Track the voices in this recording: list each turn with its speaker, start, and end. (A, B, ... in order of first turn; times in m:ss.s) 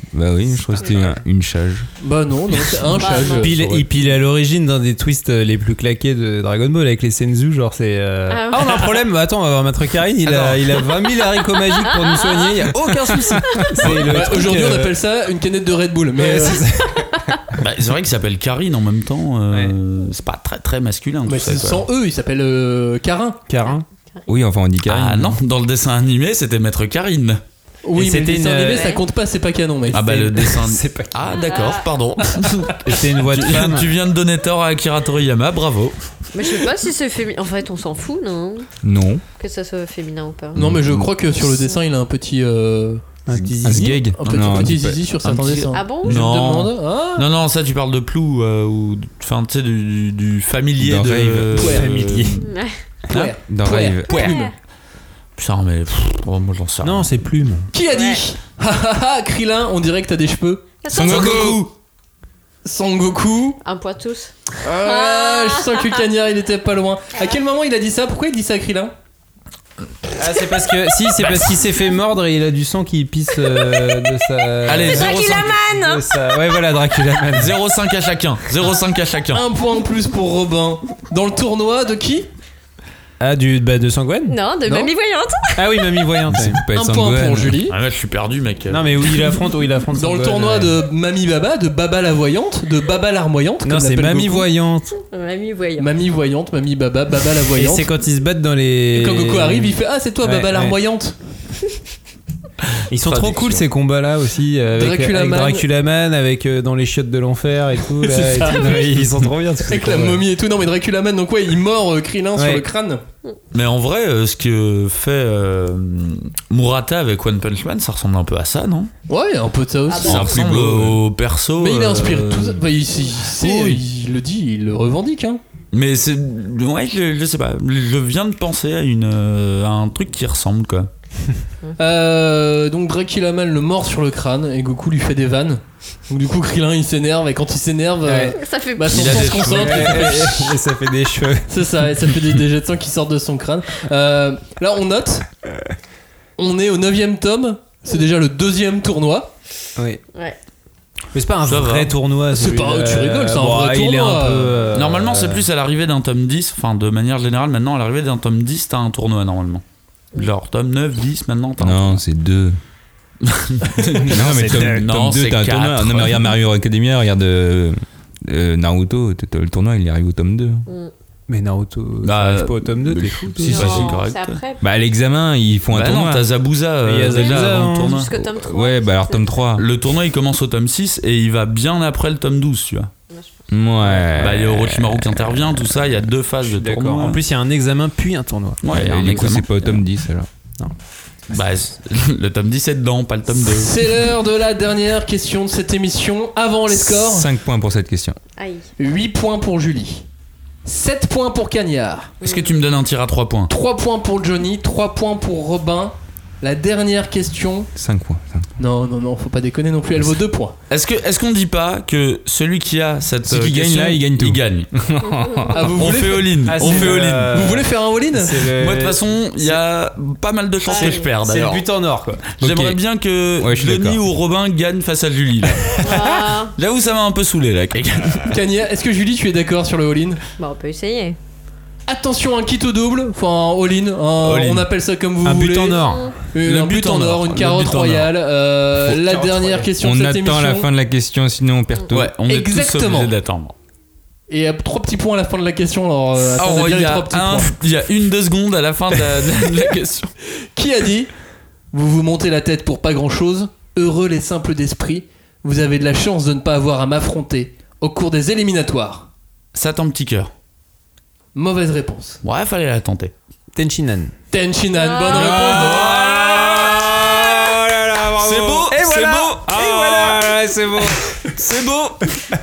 0:00.1-0:01.9 A
0:00.8-0:01.1 B
0:02.0-0:03.5 C
0:02.9-0:03.6 D
0:03.4-0:15.0 B
0:03.5-0:03.9 E
0:08.3-0:09.1 D
0:10.3-0:10.6 E
0:11.8-0:14.0 D
0:14.1-0:16.6 C
0:16.2-0:17.4 B
0:17.6-0:21.9 E
0:21.3-0:23.4 C
0:23.5-0:23.8 B
0:23.6-0:24.2 D
0:24.3-0:25.4 A
0:24.8-0:27.4 E
0:27.8-0:30.4 C
0:28.0-0:28.9 B
0:28.6-0:29.0 D
0:29.9-0:31.4 B
0:29.9-0:36.0 E
0:31.3-0:32.1 D
0:32.8-0:33.9 B
0:36.3-0:38.7 D
0:38.8-0:39.2 A
0:39.4-0:40.6 D
0:40.6-0:43.0 C
0:40.6-0:41.1 A
0:41.3-0:41.7 D
0:43.3-0:44.1 B
0:43.3-0:45.0 A
0:43.8-0:47.3 C
0:44.2-0:52.4 E
0:45.7-0:46.2 D
0:50.8-0:51.6 A
0:51.6-0:52.4 B
0:51.6-0:51.9 C
0:52.4-0:52.8 D
0:53.1-0:54.3 C
0:53.5-0:54.5 A
0:54.1-0:54.5 D
0:55.4-0:57.1 E
0:56.8-0:57.7 B
0:57.7-1:01.6 C
0:57.9-0:58.2 D
1:00.8-1:01.5 D
1:00.9-1:01.6 A
1:01.0-1:01.6 E
1:02.6-1:03.6 C
1:03.6-1:06.1 D
1:04.6-1:08.9 C
1:10.2-1:17.5 B
1:13.5-1:14.0 D
1:14.7-1:15.5 E
1:14.9-1:16.1 D
1:17.3-1:19.4 E
1:19.3-1:22.3 C
1:23.2-1:24.4 B
1:24.3-1:26.0 D
1:24.7-1:24.9 C
1:25.6-1:26.6 B
1:26.3-1:27.6 A
1:26.7-1:27.8 C
1:27.7-1:29.1 E
1:28.7-1:30.8 B
1:30.0-1:34.5 C
1:33.6-1:35.0 B
1:35.0-1:35.9 D
1:35.8-1:37.9 C
1:37.5-1:40.8 B
1:38.9-1:41.2 C
1:42.9-1:50.3 B
1:43.0-1:43.6 E
1:44.8-1:45.7 C
1:48.0-1:49.1 C
1:48.5-1:48.8 D
1:49.7-1:53.0 C
1:52.4-1:52.6 B
1:53.5-1:58.9 E
1:59.1-2:01.0 C
1:59.9-2:00.4 D
2:00.0-2:02.6 E
2:01.6-2:05.4 C
2:03.4-2:03.8 E
2:05.7-2:10.9 E
2:11.8-2:20.4 C
2:18.0-2:18.4 B
2:18.3-2:19.5 D
2:18.9-2:20.5 E
2:19.5-2:21.5 B
2:21.5-2:25.3 C
2:26.4-2:29.3 C
2:31.1-2:35.5 B
2:31.5-2:31.9 E
2:32.3-2:34.6 C
2:34.7-2:39.6 E
2:40.1-2:42.0 E
2:41.6-2:42.6 A
2:43.2-2:46.3 E
2:44.1-2:50.6 A
2:44.1-2:44.9 B
2:50.7-2:50.9 D
2:51.3-2:53.9 B
2:52.0-2:54.4 E
2:53.4-2:54.0 A
2:53.5-2:54.6 D
2:54.6-2:56.3 A
2:55.7-2:58.1 E
2:56.8-2:58.0 B
2:57.1-2:59.5 D
2:58.2-2:59.6 A
2:59.6-3:02.9 E
3:03.1-3:04.0 D
3:03.5-3:05.1 A
3:04.2-3:07.2 E
3:06.5-3:09.8 B
3:08.6-3:09.5 E
3:08.7-3:10.3 A
3:11.3-3:13.9 E
3:13.4-3:17.3 C
3:16.7-3:18.2 A
3:18.4-3:18.7 D
3:18.8-3:20.0 C
3:20.6-3:22.1 C
3:22.2-3:22.6 D
3:22.2-3:23.5 E
3:23.5-3:27.7 C
3:27.8-3:28.4 A
3:28.6-3:30.6 C
3:30.7-3:34.7 E
3:33.3-3:35.6 A
3:35.0-3:35.9 D
3:35.5-3:38.4 C
3:35.7-3:37.6 E
3:36.4-3:39.6 B
3:38.5-3:41.7 E
3:40.7-3:41.1 D
3:40.8-3:42.7 B
3:42.3-3:48.4 E
3:43.4-3:44.0 A
3:45.8-3:46.6 D
3:48.3-3:50.2 C
3:50.4-3:51.2 D
3:51.9-4:00.7 C
3:54.2-3:54.7 E
3:55.2-3:56.1 B
3:55.8-3:56.2 D
3:56.4-3:58.1 E
3:58.9-3:59.7 B
3:59.8-4:02.1 A
4:01.9-4:03.5 E
4:02.3-4:03.1 C
4:04.3-4:07.5 C
4:06.4-4:10.1 E
4:10.6-4:11.1 C
4:11.7-4:19.1 C
4:19.5-4:20.3 E
4:21.4-4:22.2 C
4:22.2-4:23.1 E
4:23.6-4:24.2 B
4:24.3-4:25.9 C
4:24.7-4:25.3 D
4:25.2-4:27.9 A
4:25.4-4:26.8 E
4:25.5-4:31.3 B
4:28.2-4:30.2 E
4:29.5-4:30.0 A
4:31.4-4:32.1 E